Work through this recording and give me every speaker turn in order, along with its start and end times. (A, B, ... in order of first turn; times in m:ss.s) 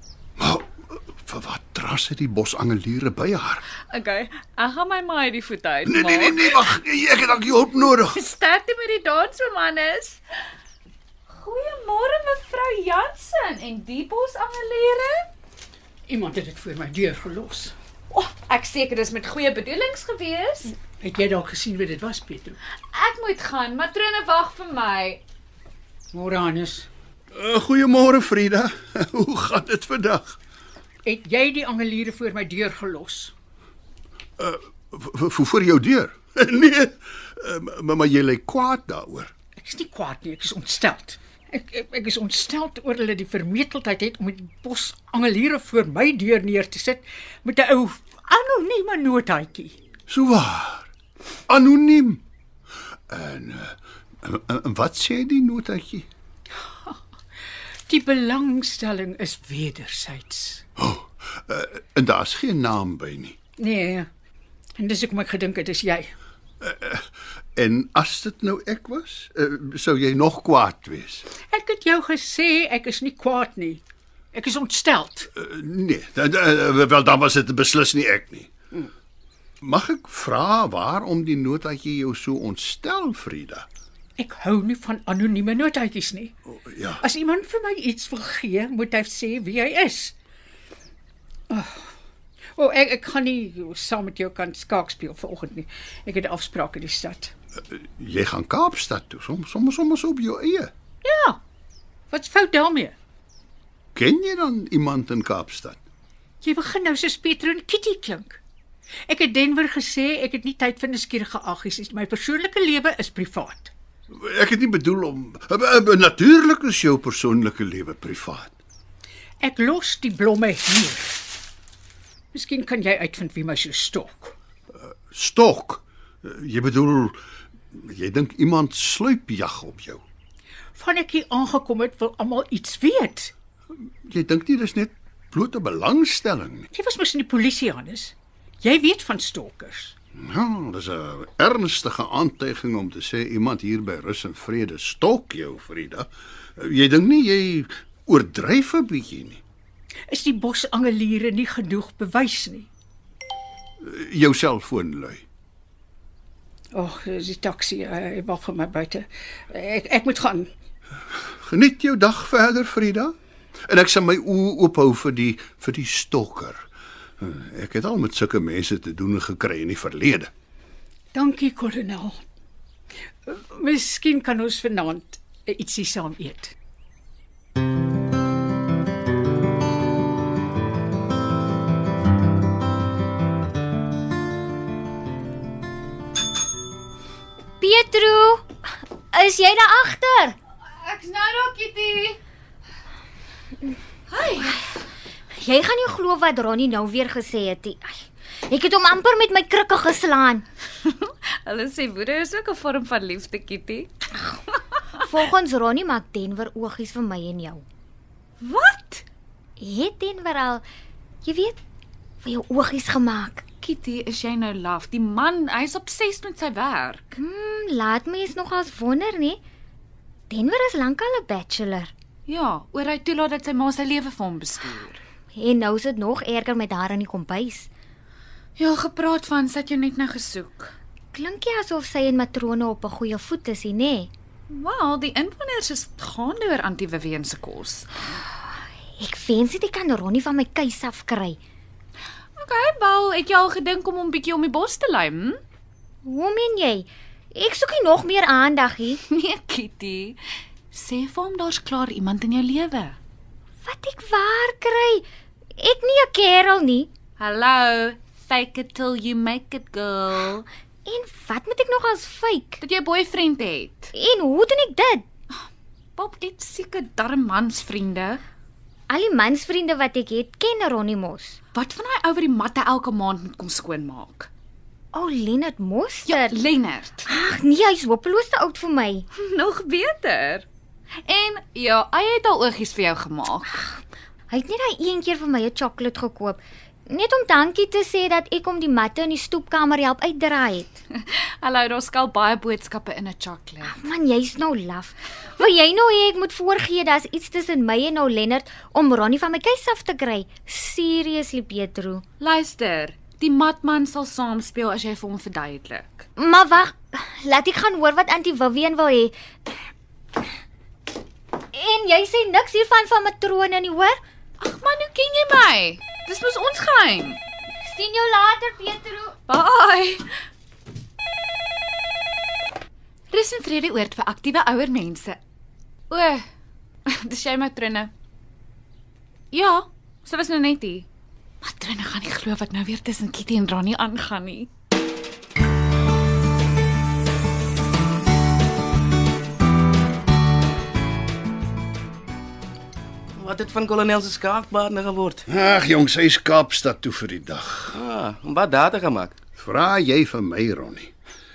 0:00.4-0:03.6 A
0:03.9-0:06.8 B
0:05.8-0:08.2 A
0:08.0-0:10.2 B
0:11.3-0:15.3 B
0:16.1-0:17.8 C
0:18.1-0:20.8 B
0:20.8-0:22.6 C
0:22.9-0:25.2 B
0:26.1-0:26.9 C
0:27.4-0:30.4 A
0:31.0-0:33.3 C
0:34.4-0:39.3 A
0:39.6-0:49.8 C
0:50.1-0:50.9 A
0:51.5-0:52.2 A
0:53.1-0:56.1 A
0:57.9-1:00.6 C
1:00.8-1:03.4 A
1:03.6-1:04.1 C
1:04.8-1:06.1 C
1:06.6-1:07.0 A
1:07.6-1:11.3 A
1:11.4-1:13.8 C
1:14.3-1:15.3 C
1:15.4-1:18.5 A
1:19.6-1:23.7 A
1:24.2-1:26.3 C
1:26.5-1:27.0 A
1:27.0-1:30.2 C
1:31.5-1:31.9 C
1:32.6-1:37.3 C
1:37.8-1:40.7 A
1:41.0-1:41.4 C
1:42.1-1:42.9 C
1:44.0-1:45.8 A
1:46.4-1:48.4 C
1:49.1-1:53.7 C
1:54.1-1:58.6 A
1:59.4-2:01.2 C
2:02.3-2:04.4 C
2:05.1-2:07.2 A
2:07.7-2:10.0 A
2:10.8-2:13.3 C
2:14.0-2:16.7 A
2:16.7-2:20.0 C
2:20.2-2:29.4 A
2:30.1-2:32.7 C
2:33.8-2:35.2 A
2:36.7-2:40.5 C
2:41.3-2:43.1 A
2:43.7-2:46.7 A
2:47.2-2:50.3 A
2:51.1-2:52.2 C
2:53.3-2:56.5 C
3:07.6-3:08.5 D
3:09.1-3:10.4 D
3:10.8-3:12.2 B
3:14.1-3:14.8 B
3:15.3-3:20.4 D
3:20.8-3:25.1 B
3:25.0-3:27.6 D
3:28.4-3:29.1 B
3:29.6-3:30.6 D
3:31.2-3:31.6 D
3:32.2-3:33.4 D
3:33.6-3:37.2 B
3:37.2-3:39.4 D
3:40.3-3:41.9 D
3:42.3-3:45.0 B
3:45.4-3:47.7 D
3:48.6-3:50.7 B
3:51.1-3:54.1 D
3:54.5-3:58.1 B
3:59.0-4:01.4 D
4:02.4-4:05.4 B
4:06.0-4:09.0 D
4:09.0-4:10.2 B
4:10.7-4:13.0 B
4:13.6-4:15.0 D
4:15.6-4:16.9 D
4:17.2-4:20.4 B
4:20.9-4:22.6 D
4:22.6-4:23.9 B
4:24.0-4:25.0 D
4:26.0-4:28.2 B
4:28.9-4:31.4 D
4:31.5-4:34.3 B
4:34.9-4:36.3 D
4:36.0-4:37.2 B
4:37.1-4:39.1 D
4:39.1-4:40.5 B
4:41.1-4:43.6 B
4:44.3-4:50.8 D
4:50.9-4:53.8 B
4:53.6-5:02.0 D
5:02.2-5:06.1 B
5:06.2-5:09.1 D
5:11.5-5:14.0 D
5:14.4-5:17.2 B
5:17.6-5:19.2 D
5:19.3-5:20.1 B
5:23.1-5:25.2 B
5:25.9-5:26.2 B
5:26.9-5:27.9 B
5:29.3-5:30.9 B
5:31.4-5:34.5 B
5:43.2-5:45.2 E
5:45.3-5:47.8 A
5:47.7-5:49.2 E
5:49.4-5:50.9 A